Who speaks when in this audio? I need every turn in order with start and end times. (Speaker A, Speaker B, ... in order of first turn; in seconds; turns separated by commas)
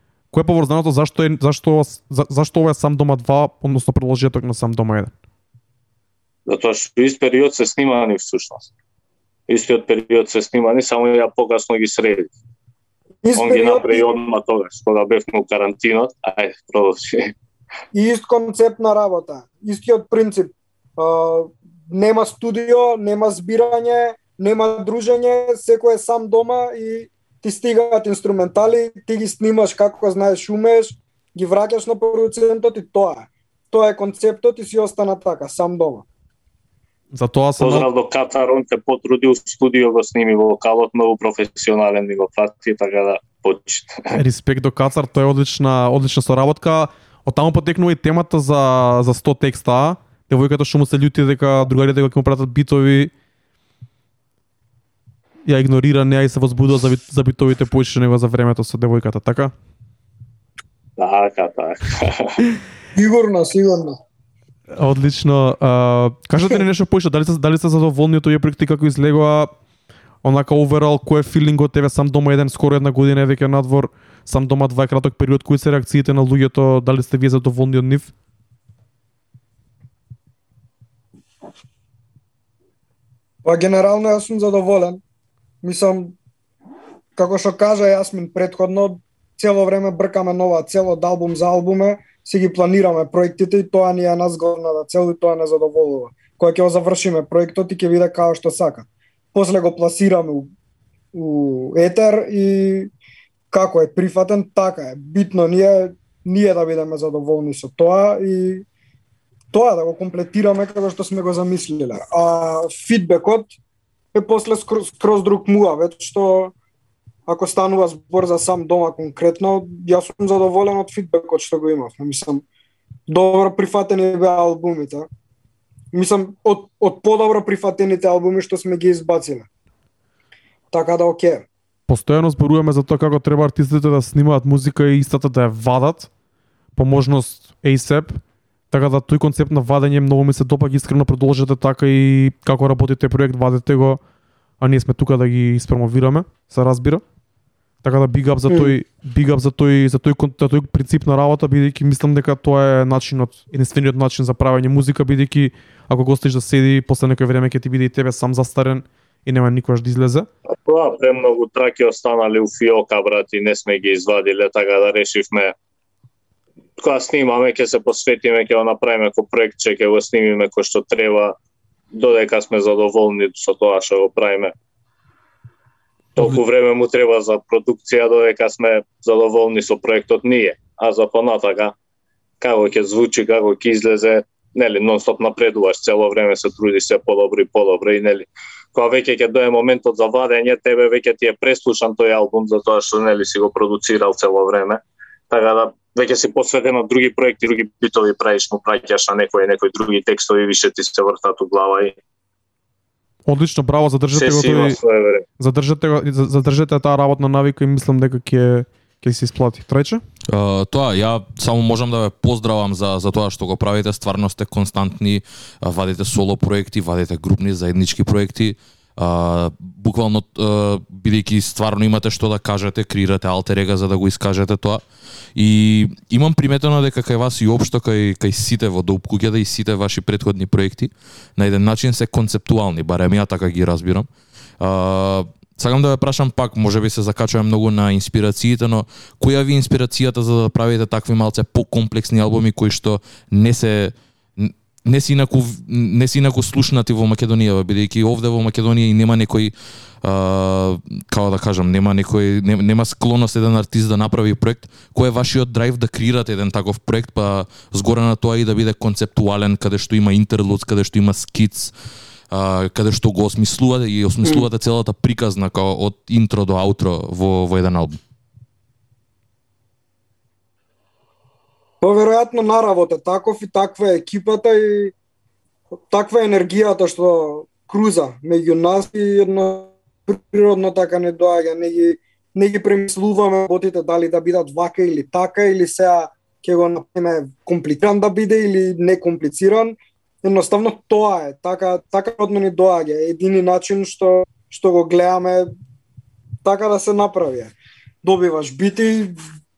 Speaker A: 0.3-5.1, Speaker B: 6.5-8.7, Speaker B: 9.5-12.3, Speaker C: 13.2-14.1, Speaker B: 13.3-17.3, Speaker C: 17.9-36.0, Speaker A: 37.1-37.9, Speaker B: 37.6-44.2, Speaker A: 44.1-53.1, Speaker A: 55.4-59.5, Speaker B: 61.0-62.4, Speaker C: 62.9-64.0, Speaker A: 64.7-69.5, Speaker A: 70.2-78.1, Speaker C: 83.4-85.0, Speaker C: 85.6-86.1, Speaker C: 87.2-100.5, Speaker C: 101.1-102.9, Speaker C: 103.5-108.6, Speaker C: 109.5-113.5, Speaker C: 114.1-116.5, Speaker C: 117.3-122.4, Speaker C: 123.1-125.1, Speaker C: 125.9-129.5, Speaker C: 130.7-131.4, Speaker A: 131.9-136.1, Speaker A: 136.8-144.0, Speaker A: 144.6-147.0, Speaker A: 147.8-160.3, Speaker C: 148.5-148.8, Speaker B: 160.6-165.5, Speaker B: 166.8-171.4, Speaker B: 171.9-174.5, Speaker B: 176.2-181.7, Speaker B: 182.4-201.9, Speaker A: 203.2-204.8, Speaker B: 204.1-205.2, Speaker A: 205.4-210.0, Speaker D: 210.3-224.8, Speaker D: 225.3-234.1, Speaker D: 234.6-261.7, Speaker D: 262.3-268.0, Speaker C: 271.8-274.9, Speaker C: 275.9-295.5, Speaker C: 296.4-299.1